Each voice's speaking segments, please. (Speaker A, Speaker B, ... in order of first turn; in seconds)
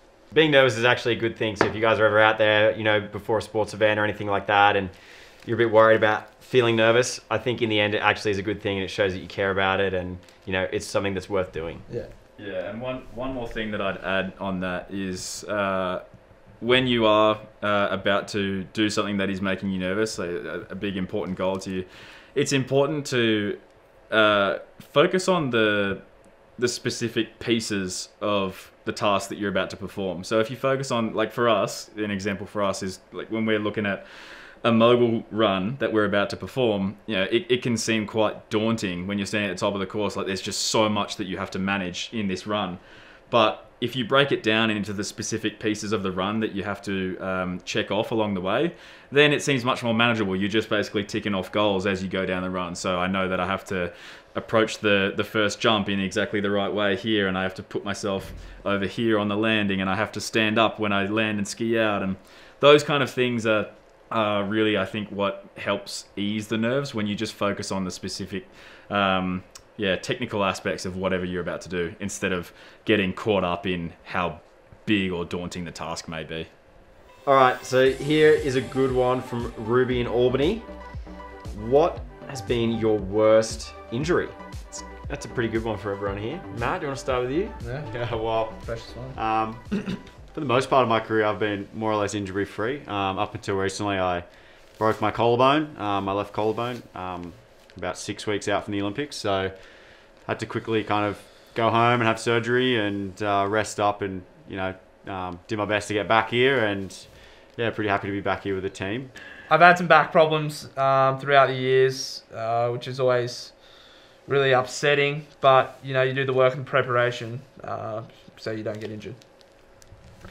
Speaker A: 0.3-11.9, 77.2-80.7, 81.5-87.5
Speaker B: 11.9-12.1, 87.6-89.2, 89.7-90.0, 109.5-119.2
Speaker C: 12.4-76.5
Speaker D: 87.8-109.1